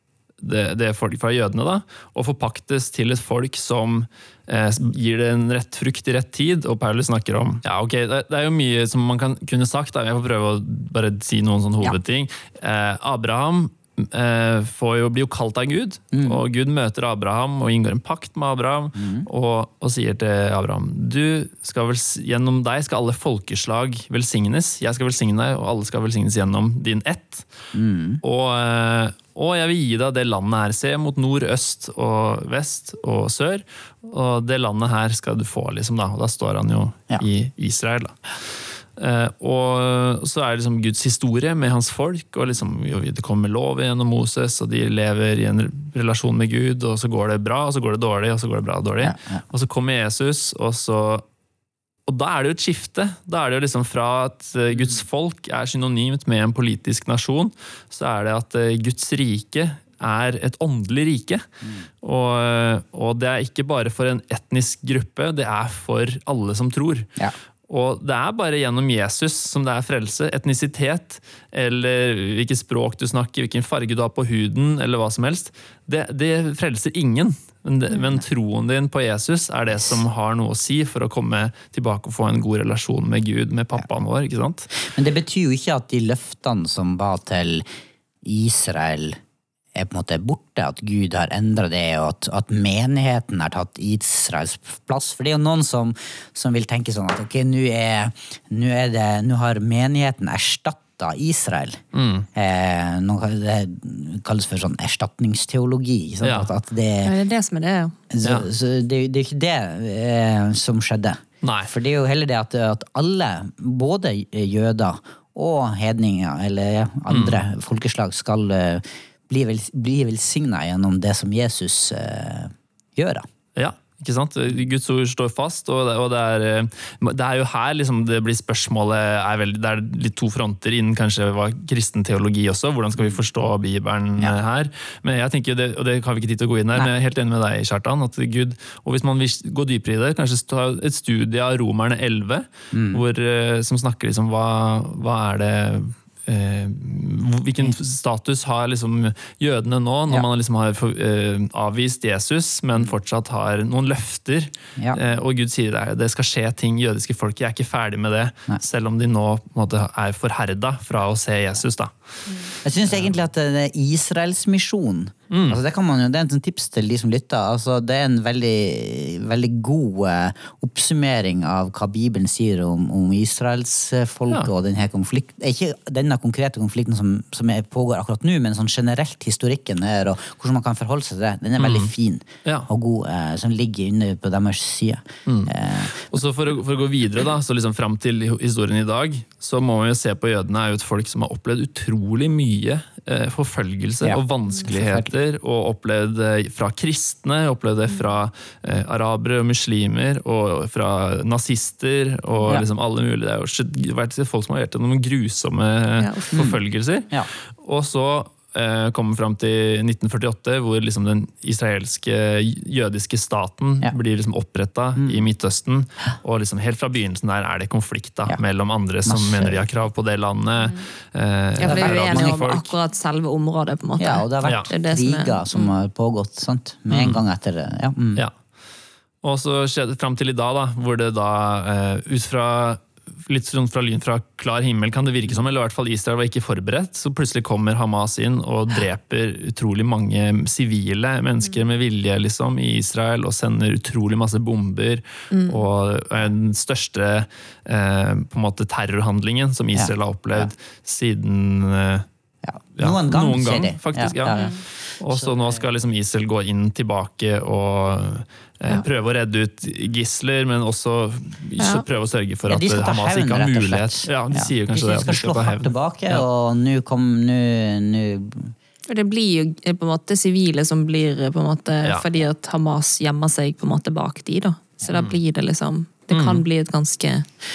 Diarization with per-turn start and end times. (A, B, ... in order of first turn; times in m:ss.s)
0:00.4-0:27.5 A
0:16.1-0:16.4 B
0:19.0-0:19.3 B
0:27.7-0:28.2 B
0:28.2-0:38.2 A
0:38.9-0:51.2 A
0:49.0-0:49.4 B
0:52.0-1:01.4 A
1:02.0-1:07.1 A
1:07.7-1:24.7 A
1:24.7-1:27.6 B
1:28.2-1:29.2 B
1:29.7-1:41.8 B
1:41.9-1:42.3 A
1:42.3-1:47.1 B
1:46.2-1:46.5 A
1:47.0-1:48.0 C
1:48.1-2:03.2 B
1:48.2-1:48.5 A
1:51.4-1:51.7 A
1:57.1-1:57.4 A
2:03.6-2:41.9 A
2:22.7-2:23.0 B
2:42.6-3:06.1 B
2:42.9-2:43.1 A
2:45.3-2:45.6 A
3:01.6-3:01.9 A
3:05.2-3:42.7 A
3:14.0-3:15.1 B
3:26.0-3:26.4 C
3:26.3-3:26.6 B
3:35.0-3:35.2 B
3:39.0-3:39.6 B
3:41.6-3:45.8 C
3:41.6-3:42.3 B
3:44.0-3:48.2 B
3:44.4-3:44.7 A
3:46.9-3:47.2 A
3:49.2-4:12.0 A
4:05.3-4:05.6 C
4:09.7-4:10.5 B
4:12.4-4:15.6 B
4:12.8-4:14.5 A
4:14.3-4:14.6 C
4:15.0-4:26.2 A
4:21.6-4:21.8 C
4:22.5-4:28.5 B
4:28.9-4:37.2 C
4:34.9-4:35.2 A
4:36.1-4:36.4 A